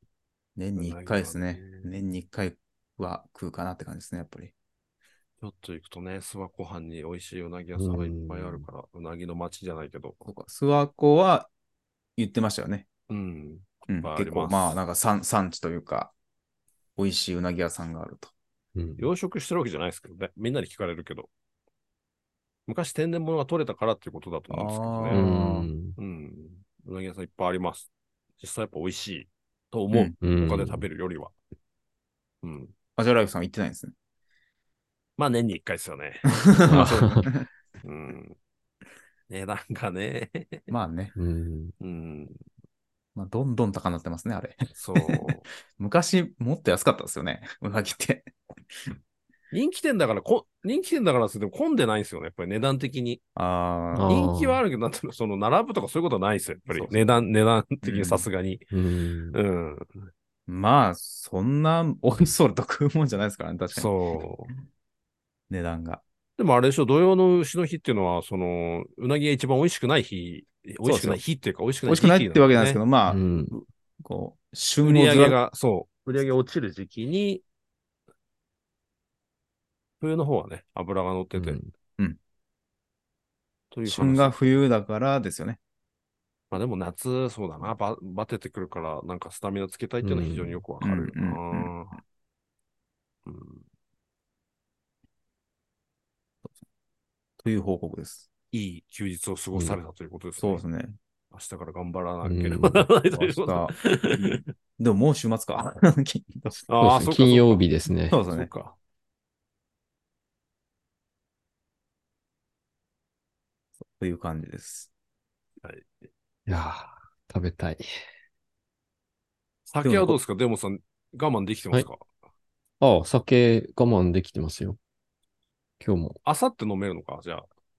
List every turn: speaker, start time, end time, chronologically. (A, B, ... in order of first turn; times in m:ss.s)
0:00.6-0:04.5 A
0:00.8-0:01.9 B
0:05.4-0:10.2 B
0:07.8-0:08.7 C
0:10.2-0:11.5 A
0:12.2-0:12.9 A
0:13.1-0:14.8 B
0:13.9-0:16.1 A
0:17.0-0:18.3 A
0:18.8-0:19.1 C
0:19.0-0:21.3 B
0:22.7-0:25.2 B
0:24.5-0:25.7 A
0:25.1-0:26.0 C
0:26.0-0:31.3 B
0:30.2-0:30.9 C
0:32.4-0:32.7 B
0:33.0-0:33.9 A
0:35.2-0:37.3 B
0:36.3-0:37.5 A
0:36.6-0:37.3 C
0:37.8-0:38.4 B
0:39.3-0:40.7 B
0:40.7-0:41.1 A
0:41.2-0:41.7 C
0:41.8-0:42.4 B
0:43.2-0:48.3 A
0:44.8-0:45.4 B
0:49.5-0:53.2 B
0:53.4-0:54.1 A
0:53.9-0:54.6 C
0:54.1-0:58.7 B
0:56.7-0:57.0 A
0:57.8-0:58.3 A
0:58.7-0:59.4 C
0:59.3-1:00.1 B
1:00.5-1:03.9 A
1:03.7-1:04.5 B
1:05.5-1:06.0 A
1:06.4-1:12.8 B
1:10.8-1:11.2 A
1:11.9-1:15.4 A
1:13.1-1:13.6 C
1:14.8-1:17.4 B
1:20.0-1:21.6 B
1:21.4-1:21.7 C
1:23.7-1:24.4 B
1:23.9-1:25.6 A
1:26.5-1:32.0 B
1:30.0-1:30.6 C
1:30.8-1:31.7 A
1:33.3-1:33.6 B
1:37.4-1:38.3 A
1:38.5-1:40.6 B
1:40.4-1:41.0 A
1:41.3-1:44.4 B
1:42.2-1:42.9 C
1:43.1-1:46.7 A
1:46.7-1:47.7 B
1:46.8-1:48.2 C
1:48.1-1:48.5 A
1:48.3-1:48.8 B
1:54.0-1:54.9 A
1:55.6-1:55.9 B
1:56.5-1:57.8 C
1:59.7-2:02.0 B
1:59.8-2:00.2 A
2:02.8-2:04.8 C
2:05.8-2:06.2 C
2:06.2-2:07.5 B